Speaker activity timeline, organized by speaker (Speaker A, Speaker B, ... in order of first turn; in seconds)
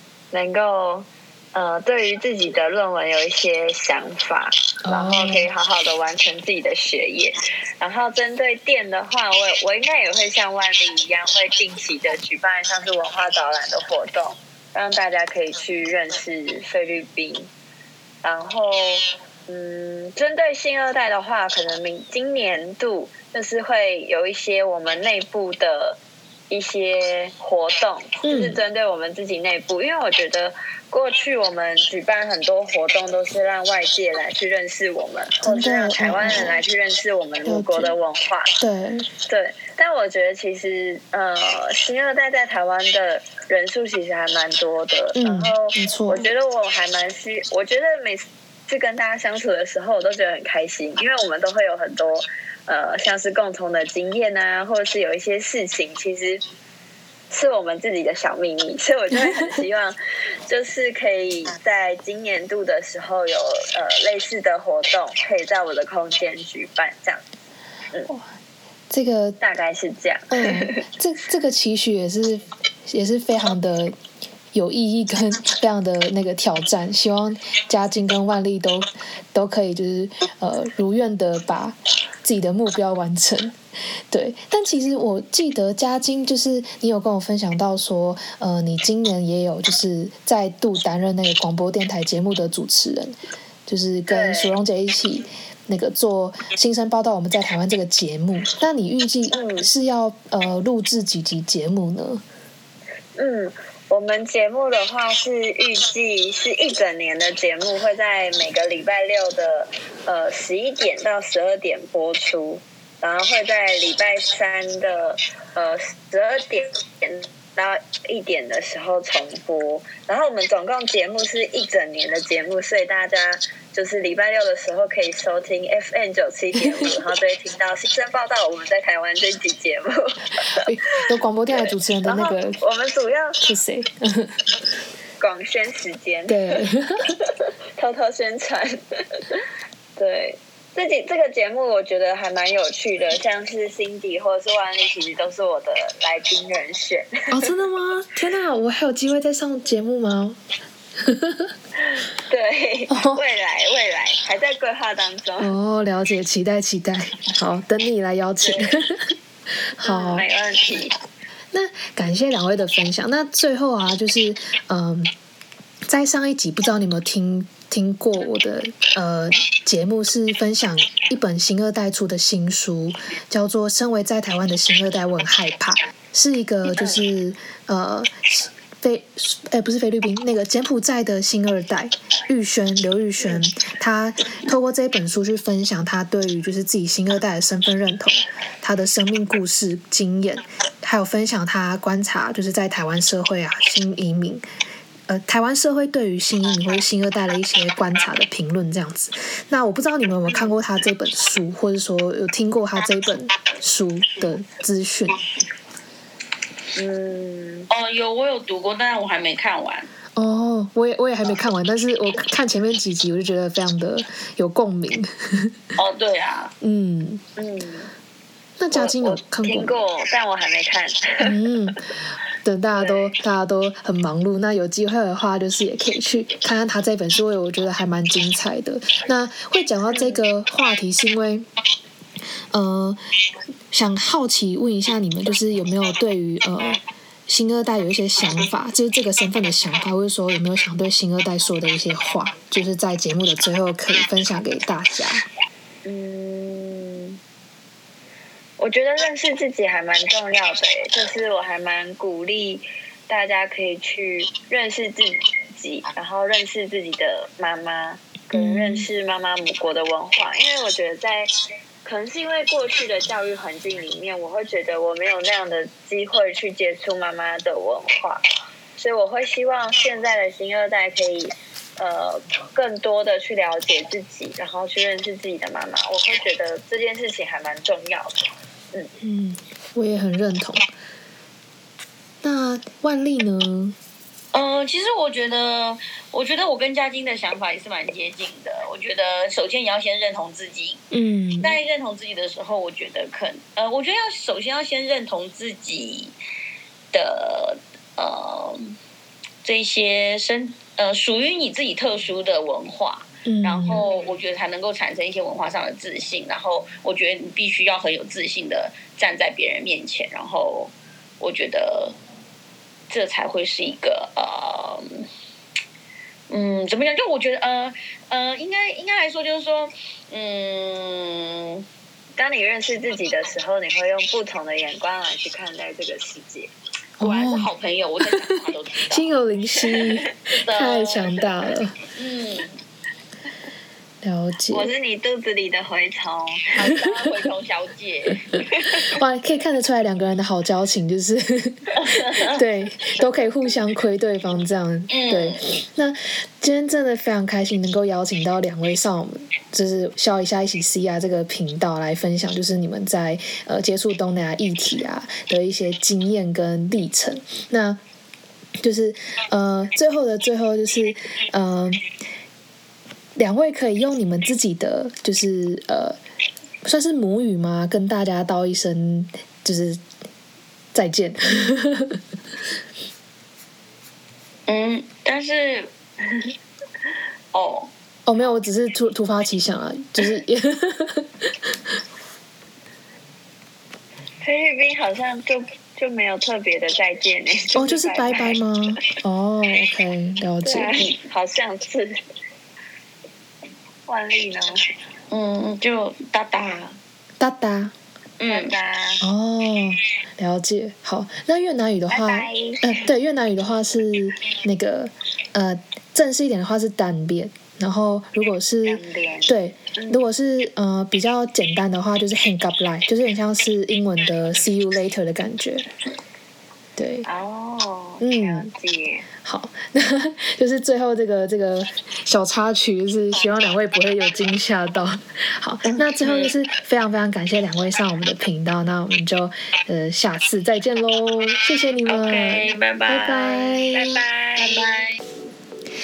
Speaker A: 0.3-17.5, 18.2-26.0, 26.5-38.5, 39.3-56.4, 57.3-67.2, 69.4-70.8, 94.1-94.5, 99.3-99.7, 103.2-130.2, 131.5-133.4, 135.2-136.6, 137.2-139.4, 140.0-147.3, 152.3-155.5, 158.4-158.7, 159.8-161.0, 206.8-207.7, 217.4-217.9, 218.7-221.4, 222.7-223.1, 229.9-230.2, 245.8-247.2, 248.6-261.3, 261.9-268.2, 268.8-278.2, 322.2-326.5, 334.5-336.7, 384.2-388.4, 390.4-392.0, 393.9-394.7, 398.3-399.0, 401.9-402.8, 408.6-410.0, 417.1-419.1, 433.8-434.8
Speaker B: 4.8-5.5, 28.2-28.6, 35.4-36.6, 37.5-38.0, 38.6-39.1, 45.1-46.3, 59.2-59.5, 68.9-69.4, 70.3-74.0, 74.5-83.5, 84.1-102.2, 130.5-132.6, 133.4-134.4, 136.3-137.2, 147.3-150.4, 151.0-151.5, 152.9-153.2, 155.4-159.1, 159.8-160.3, 161.5-165.1, 165.9-194.4, 195.1-205.2, 210.2-215.5, 216.6-217.2, 218.6-219.8, 221.2-231.5, 232.5-233.0, 233.7-245.2, 258.3-258.9, 279.0-280.7, 282.2-283.8, 290.9-291.6, 303.3-303.9, 327.0-327.5, 328.9-331.8, 334.0-334.7, 338.9-357.8, 358.6-361.8, 363.2-366.0, 366.6-369.8, 370.7-372.0, 378.1-381.5, 387.6-390.9, 397.2-397.7, 399.0-415.7, 416.8-417.1, 418.0-418.5, 419.2-434.0
Speaker C: 207.7-209.9, 215.8-216.5, 284.3-290.8, 291.4-296.1, 296.9-298.8, 299.4-311.9, 312.9-315.1, 316.3-321.6, 327.0-329.1, 330.5-331.2, 331.9-332.5, 336.6-338.3, 344.9-345.4, 374.5-375.7, 377.3-377.7, 395.1-396.8, 398.2-398.6, 426.0-426.3, 431.9-433.7, 434.4-434.8